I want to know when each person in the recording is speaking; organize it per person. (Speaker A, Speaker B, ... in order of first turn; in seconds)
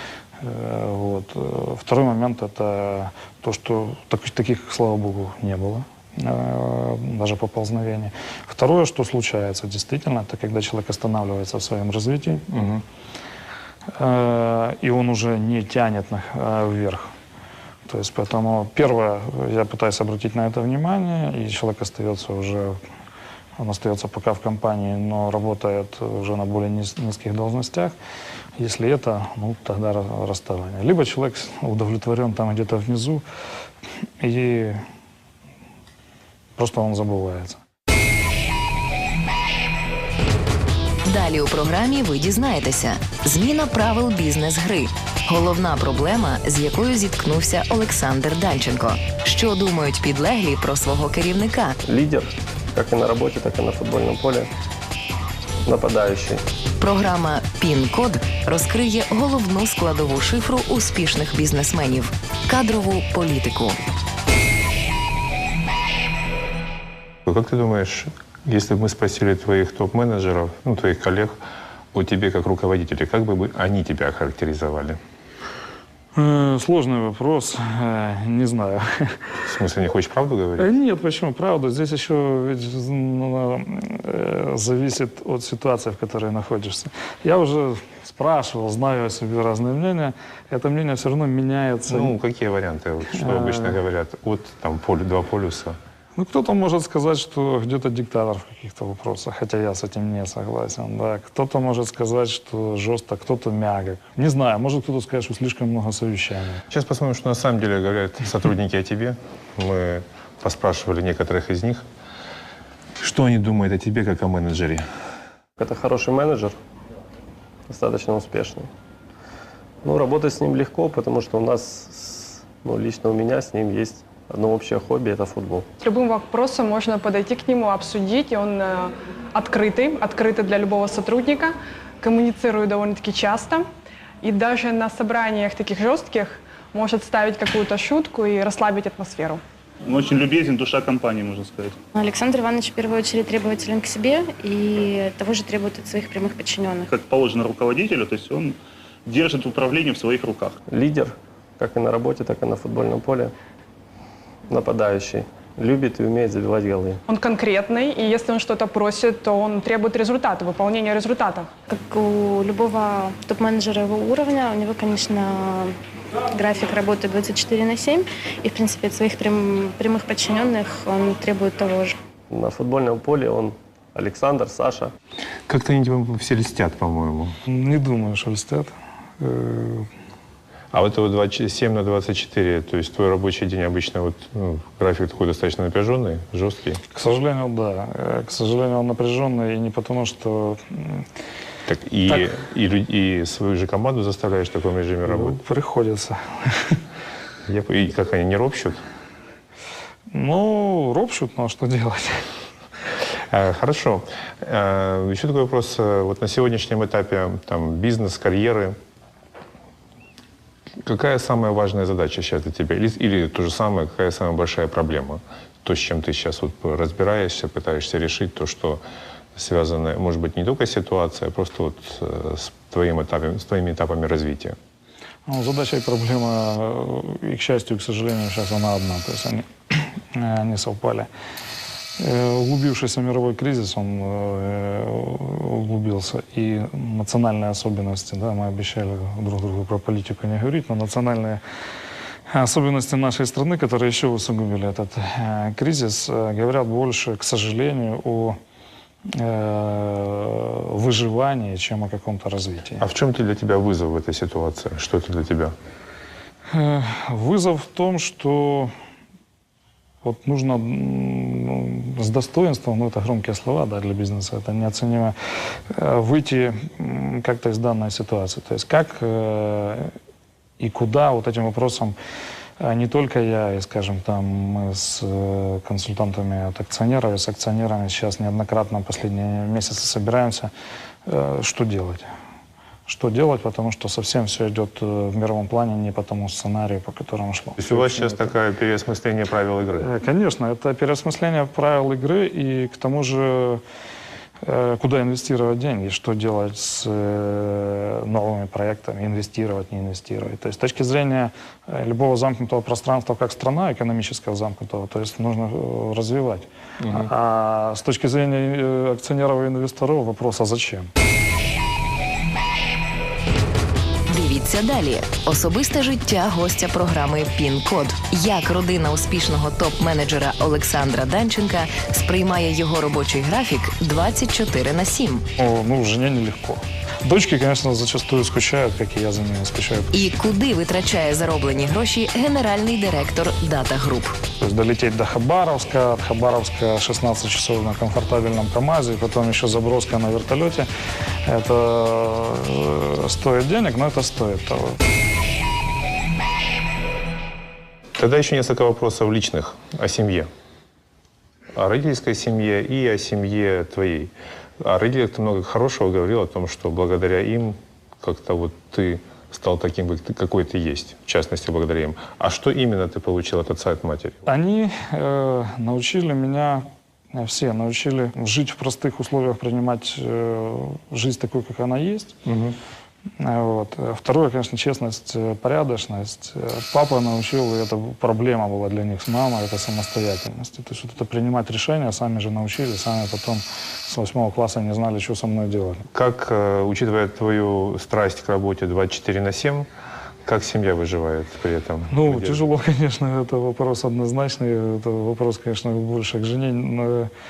Speaker A: 0.4-12.5, 14.0-17.1, 17.9-22.8, 23.6-27.9, 28.6-33.2, 34.2-34.8, 36.6-37.6, 76.2-79.2, 80.6-92.1, 93.2-93.8, 96.2-106.6, 177.5-179.9, 186.9-191.1, 195.1-196.8, 200.1-202.3, 225.3-231.1, 232.0-241.4, 242.3-248.4, 249.1-252.8, 256.5-258.7, 260.0-265.1, 265.7-269.9, 270.6-272.0, 272.6-280.5, 281.1-282.1, 282.9-288.3, 289.8-293.6, 294.4-310.9, 325.4-329.9, 334.4-340.7, 341.2-344.8, 364.3-372.2, 373.2-385.9, 391.9-397.1
Speaker B: 12.5-12.8, 67.3-71.4, 71.9-75.0, 79.5-80.7, 91.9-95.8, 106.7-111.8, 113.0-114.8, 175.5-177.4, 180.7-186.8, 191.7-195.4, 197.5-198.8, 203.2-208.8, 210.8-218.8, 219.3-224.6, 252.8-255.6, 287.6-289.9, 306.8-307.1, 348.0-350.3, 351.6-364.3, 372.2-372.6, 385.9-389.7, 390.2-392.4
Speaker C: 41.0-51.8, 56.8-63.8, 314.1-325.2, 329.9-334.2
Speaker D: 51.9-54.5, 55.7-56.4, 115.6-116.5, 117.7-118.7, 119.8-125.7, 150.7-153.3, 154.5-157.0, 172.3-174.9
Speaker E: 125.8-133.7, 134.2-139.4, 157.1-161.6
Speaker F: 139.9-141.8, 146.9-150.6
Speaker G: 141.9-146.9, 161.7-165.8, 166.3-172.0